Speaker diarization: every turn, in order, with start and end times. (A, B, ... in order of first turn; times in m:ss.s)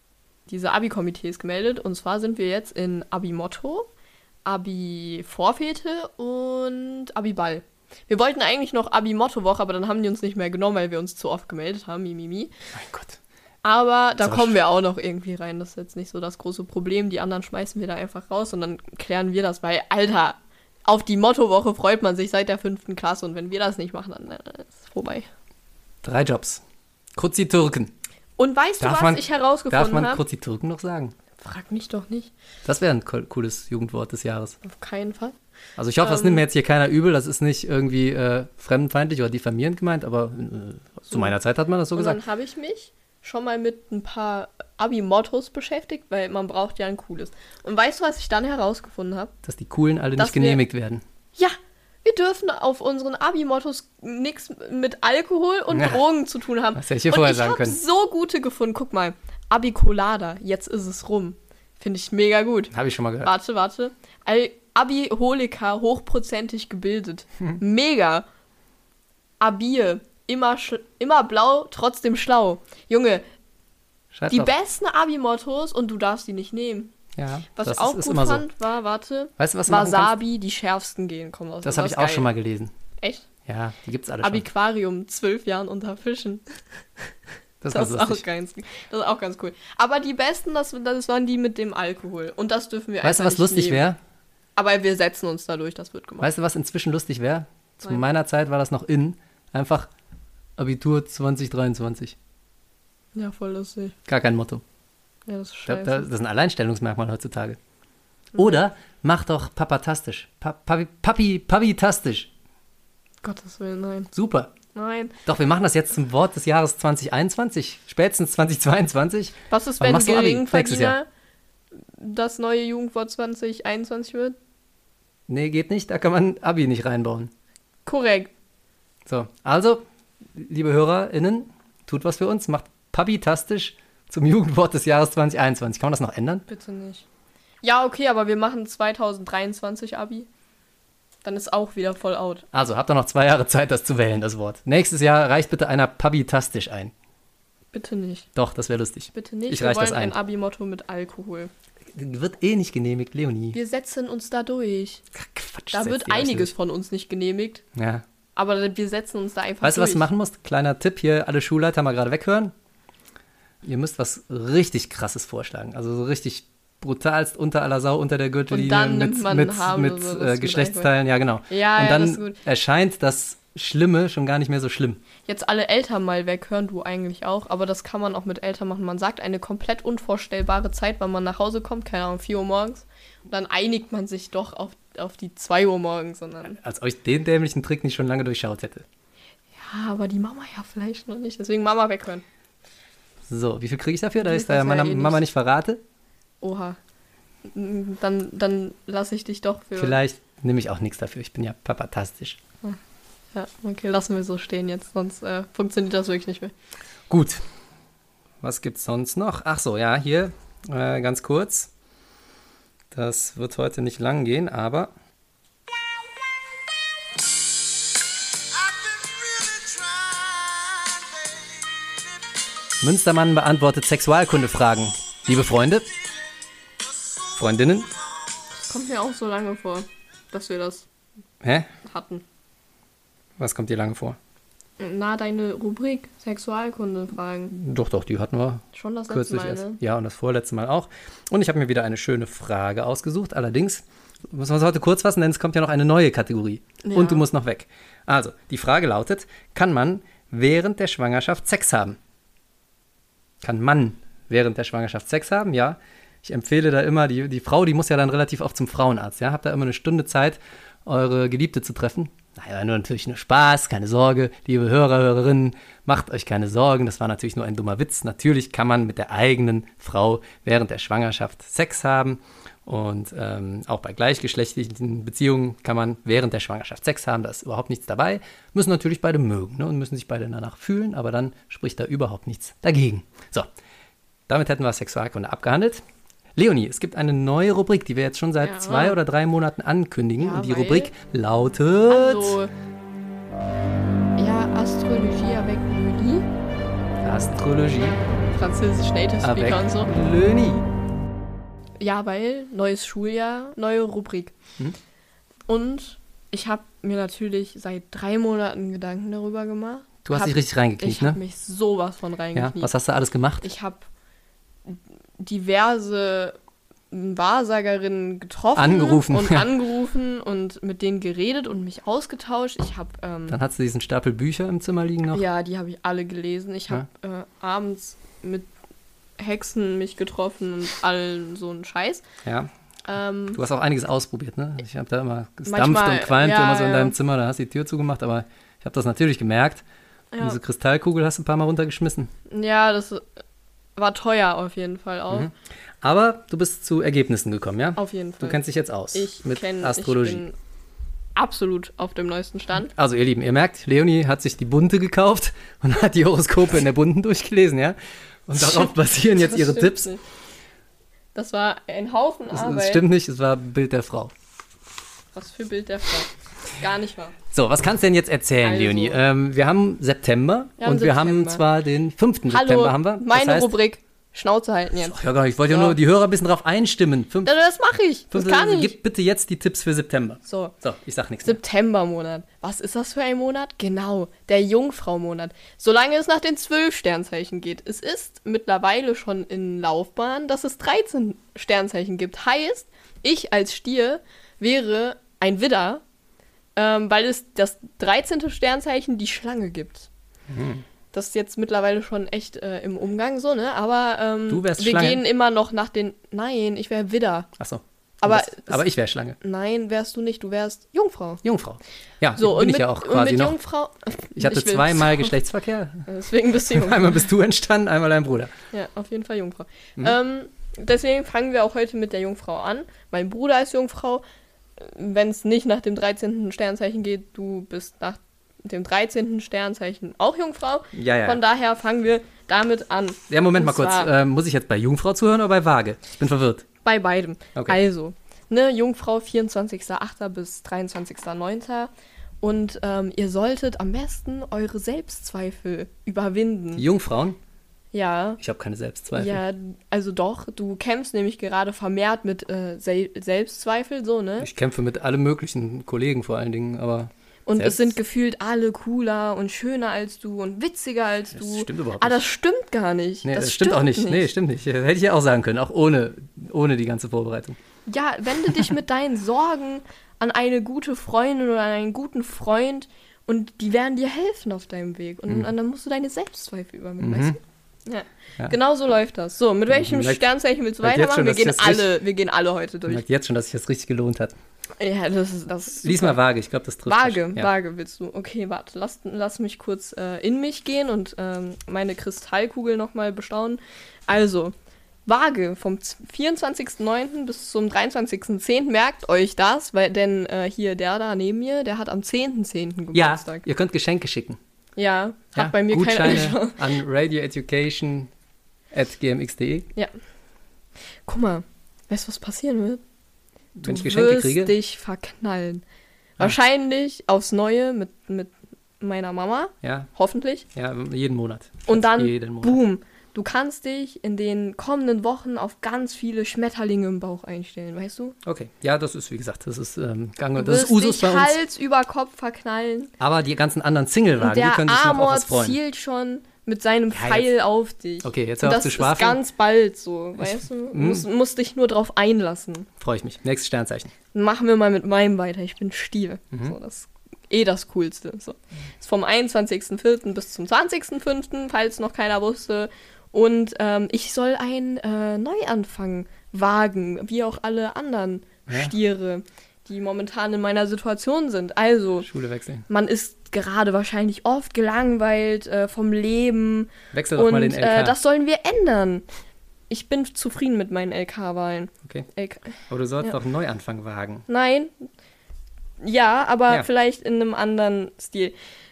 0:00.5-0:03.9 A
0:04.4-0:12.5 A
0:12.7-0:13.2 B
0:13.6-0:25.3 A
0:14.2-0:14.6 B
0:26.0-0:26.6 B
0:27.2-0:27.9 B
0:28.4-0:30.2 A
0:28.8-0:31.1 B
0:31.4-0:32.3 A
0:32.6-0:34.6 B
0:34.6-0:35.4 A
0:35.8-0:42.2 B
0:36.0-0:36.4 A
0:42.0-0:49.3 A
0:49.4-0:51.0 B
0:50.2-0:50.6 A
0:51.4-1:08.3 A
0:55.7-0:56.0 B
0:56.8-0:57.8 B
1:02.7-1:03.3 B
1:09.4-1:13.2 A
1:14.1-1:14.5 B
1:14.3-1:16.9 A
1:17.2-1:18.4 B
1:17.6-1:22.3 A
1:19.4-1:20.2 B
1:21.6-1:22.7 B
1:23.0-1:23.3 A
1:23.5-1:24.4 B
1:24.2-1:27.0 A
1:27.6-1:28.2 B
1:27.7-1:33.8 A
1:33.0-1:34.0 B
1:34.6-1:36.3 A
1:36.2-1:39.9 B
1:40.6-1:42.2 B
1:43.2-1:44.0 A
1:44.1-1:44.6 B
1:45.3-1:46.1 A
1:45.7-1:47.6 B
1:48.4-1:52.3 B
1:53.2-1:54.1 A
1:54.1-1:54.5 B
1:54.7-1:55.2 A
1:55.2-2:01.0 B
1:59.5-2:01.1 A
2:01.8-2:04.4 A
2:05.3-2:07.3 B
2:07.9-2:08.3 A
2:09.1-2:16.4 B
2:16.5-2:17.0 A
2:17.6-2:20.3 A
2:21.2-2:22.4 A
2:22.5-2:26.9 B
2:27.7-2:28.3 A
2:28.4-2:30.2 B
2:29.1-2:31.5 A
2:31.9-2:33.6 B
2:33.5-2:35.0 A
2:35.1-2:36.5 B
2:35.7-2:37.6 A
2:37.8-2:38.0 B
2:38.4-2:40.0 A
2:39.6-2:42.5 B
2:43.6-2:55.0 B
2:48.5-2:50.9 A
2:51.5-2:52.4 A
2:55.3-3:06.6 A
3:06.5-3:08.9 B
3:09.6-3:12.2 A
3:13.3-3:15.8 B
3:14.2-3:15.2 A
3:16.4-3:16.8 A
3:17.5-3:20.0 A
3:19.8-3:22.4 B
3:23.3-3:26.5 A
3:27.1-3:27.4 B
3:28.4-3:31.7 B
3:32.9-3:34.9 B
3:38.7-3:41.2 B
3:42.8-3:45.9 B
3:47.3-3:47.9 B
3:48.6-3:50.9 A
3:51.4-3:51.7 B
3:51.8-3:52.2 A
3:53.4-3:54.2 B
3:54.8-3:57.5 A
3:57.5-4:12.0 B
3:58.7-3:59.8 A
4:06.8-4:07.2 A
4:13.4-4:43.5 B
4:44.3-4:45.8 B
4:46.4-4:52.4 B
4:48.4-4:49.0 A
4:50.2-4:50.9 A
4:51.9-4:52.5 A
4:54.2-4:56.3 A
4:57.0-4:58.0 B
4:58.4-4:59.9 A
4:59.2-5:00.6 B
5:01.8-5:04.4 A
5:05.5-5:12.7 A
5:10.0-5:11.2 B
5:12.4-5:13.4 B
5:13.4-5:13.9 A
5:14.7-5:16.4 A
5:16.9-5:23.4 A
5:18.6-5:19.5 B
5:23.3-5:25.2 B
5:25.1-5:28.5 A
5:29.2-5:32.0 A
5:32.2-5:32.5 B
5:32.9-5:33.4 A
5:33.3-5:39.6 B
5:35.5-5:37.0 A
5:40.1-5:40.4 A
5:40.2-5:42.1 B
5:42.3-5:43.1 A
5:43.8-5:45.3 A
5:45.8-5:50.2 B
5:47.8-5:48.4 A
5:48.9-5:50.4 A
5:51.2-5:52.7 A
5:52.7-5:59.9 B
5:59.2-6:00.0 A
6:01.2-6:02.8 A
6:02.3-6:04.1 B
6:05.1-6:07.2 A
6:07.3-6:13.5 B
6:08.4-6:09.0 A
6:10.6-6:11.4 A
6:12.3-6:15.8 A
6:14.8-6:17.3 B
6:17.2-6:18.8 A
6:18.1-6:21.4 B
6:20.2-6:20.5 A
6:21.2-6:35.8 A
6:36.6-6:39.9 A
6:40.3-6:40.6 B
6:40.9-6:47.3 A
6:44.3-6:45.0 B
6:47.4-6:49.2 B
6:48.0-6:48.6 A
6:49.2-6:51.2 A
6:51.2-6:53.4 B
6:52.2-6:55.2 A
6:54.2-6:55.9 B
6:55.9-6:57.0 A
6:56.5-6:58.3 B
6:58.5-7:04.0 A
7:04.6-7:13.9 A
7:10.7-7:11.2 B
7:13.1-7:16.5 B
7:16.6-7:21.7 A
7:22.2-7:26.6 A
7:26.6-7:27.2 B
7:27.7-7:28.2 A
7:28.2-7:29.2 B
7:28.9-7:34.3 A
7:34.2-7:37.7 B
7:37.3-7:44.1 A
7:41.1-7:42.0 B
7:43.0-7:47.4 B
7:47.7-8:02.8 A
7:56.8-7:57.2 B
7:59.5-8:00.0 B
8:00.6-8:01.7 B
8:02.7-8:04.2 B
8:04.6-8:06.0 A
8:05.6-8:07.3 B
8:06.7-8:14.3 A
8:14.9-8:23.2 A
8:22.7-8:24.2 B
8:24.6-8:26.4 A
8:25.2-8:27.9 B
8:28.5-8:29.5 B
8:30.9-8:32.6 A
8:33.4-8:34.4 B
8:33.4-8:35.4 A
8:36.0-8:40.3 A
8:39.4-8:39.7 B
8:40.3-8:42.4 B
8:41.5-8:48.0 A
8:48.0-8:51.2 B
8:50.2-8:52.7 A
8:52.8-8:55.4 B
8:54.0-9:02.5 A
8:56.7-8:57.1 B
8:57.8-8:59.0 B
9:00.0-9:00.9 B
9:02.6-9:03.7 B
9:03.9-9:21.9 A
9:18.3-9:18.5 B
9:21.8-9:22.5 B
9:22.5-9:28.8 A
9:26.7-9:27.8 B
9:29.5-9:33.0 A
9:32.5-9:34.1 B
9:34.1-9:34.7 A
9:35.6-9:38.2 A